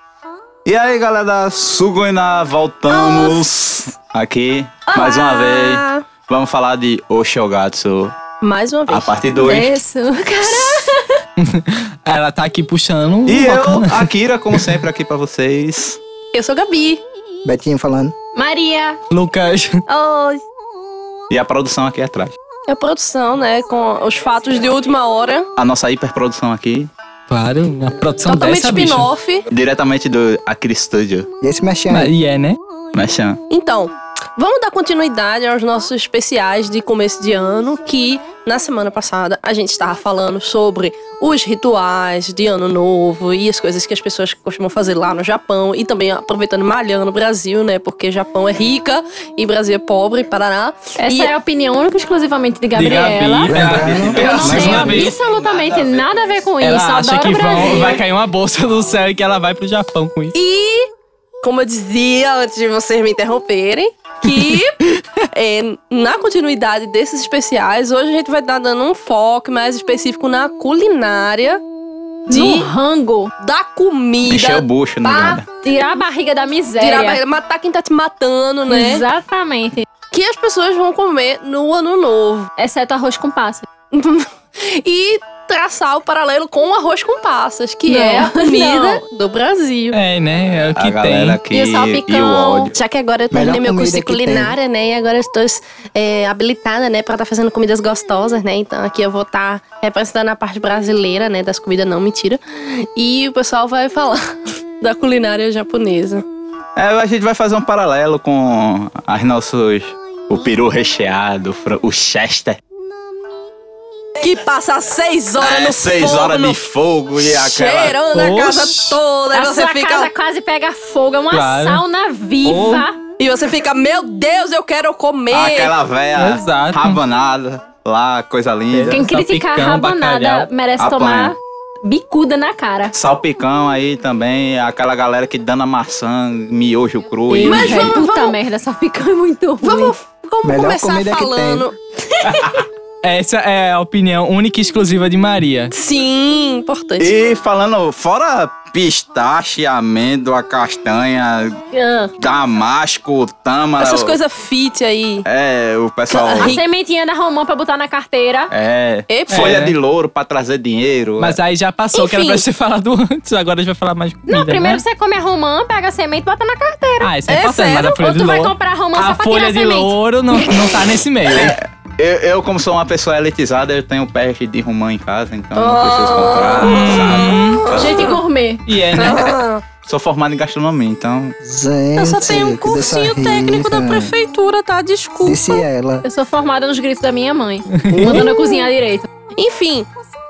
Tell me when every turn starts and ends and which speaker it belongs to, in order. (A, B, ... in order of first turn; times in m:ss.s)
0:00.6-0:08.2 A
0:02.9-0:03.4 B
0:04.9-0:06.1 B
0:08.4-0:09.5 B
0:08.9-0:09.7 A
0:09.4-0:11.2 C
0:11.4-0:14.7 D
0:13.2-0:16.0 A
0:16.3-0:17.0 B
0:17.4-0:18.1 E
0:18.4-0:19.0 C
0:19.1-0:19.8 D
0:19.9-0:20.4 B
0:21.3-0:22.4 A
0:22.7-0:25.5 B
0:25.6-0:26.9 A
0:27.3-0:29.1 D
0:28.2-0:29.4 B
0:29.5-0:31.3 A
0:31.4-0:32.1 E
0:31.9-0:32.6 D
0:32.9-0:33.4 A
0:33.5-0:51.3 B
0:51.0-0:53.5 C
0:52.8-0:55.2 D
0:53.5-0:55.1 E
0:53.6-0:56.1 A
0:54.1-0:58.0 C
0:56.6-1:00.4 D
1:00.3-1:00.9 B
1:01.4-1:04.8 B
1:04.2-1:04.6 D
1:05.3-1:11.6 B
1:12.3-1:13.3 C
1:12.3-1:12.7 B
1:13.4-1:15.4 B
1:14.2-1:15.4 A
1:15.6-1:17.2 C
1:16.8-1:19.0 B
1:18.7-1:19.8 C
1:20.1-1:22.5 B
1:22.6-1:23.7 C
1:23.9-1:30.0 B
1:27.9-1:29.0 C
1:29.9-1:31.4 D
1:30.6-1:32.7 A
1:31.5-1:32.7 C
1:32.7-1:46.2 B
1:33.3-1:34.5 E
1:46.8-1:52.6 A
1:54.2-1:56.6 B
1:55.4-1:58.0 A
1:57.2-2:00.1 B
1:58.1-1:59.0 D
1:59.3-2:03.0 C
2:01.3-2:01.8 D
2:02.4-2:02.8 D
2:03.2-2:05.8 B
2:05.3-2:09.0 A
2:06.2-2:07.0 D
2:08.7-2:10.5 D
2:08.9-2:13.0 C
2:10.8-2:11.3 A
2:12.9-2:18.0 A
2:17.3-2:19.9 C
2:17.4-2:18.4 B
2:19.6-2:22.4 B
2:20.4-2:21.6 E
2:22.4-2:22.6 A
2:23.0-2:25.7 D
2:25.7-2:27.1 B
2:27.0-2:31.6 A
2:31.7-2:32.1 C
2:32.2-2:34.2 A
2:33.8-2:35.2 B
2:35.2-2:36.6 A
2:36.1-2:36.6 B
2:36.3-2:38.5 C
2:38.5-2:41.4 A
2:39.1-2:39.6 B
2:39.3-2:39.7 D
2:41.2-2:44.8 D
2:41.9-2:42.4 B
2:44.3-2:47.1 C
2:47.0-2:51.6 D
2:47.3-2:47.9 B
2:47.8-2:49.9 C
2:51.3-2:57.9 A
2:55.5-2:58.2 B
2:56.6-2:57.6 D
2:57.7-2:58.6 C
2:58.7-2:59.4 D
2:58.9-2:59.6 B
2:59.8-3:01.4 A
3:01.4-3:04.1 E
3:02.0-3:05.6 B
3:05.2-3:06.0 E
3:06.0-3:09.1 C
3:07.8-3:08.2 D
3:07.9-3:08.3 E
3:09.4-3:09.9 B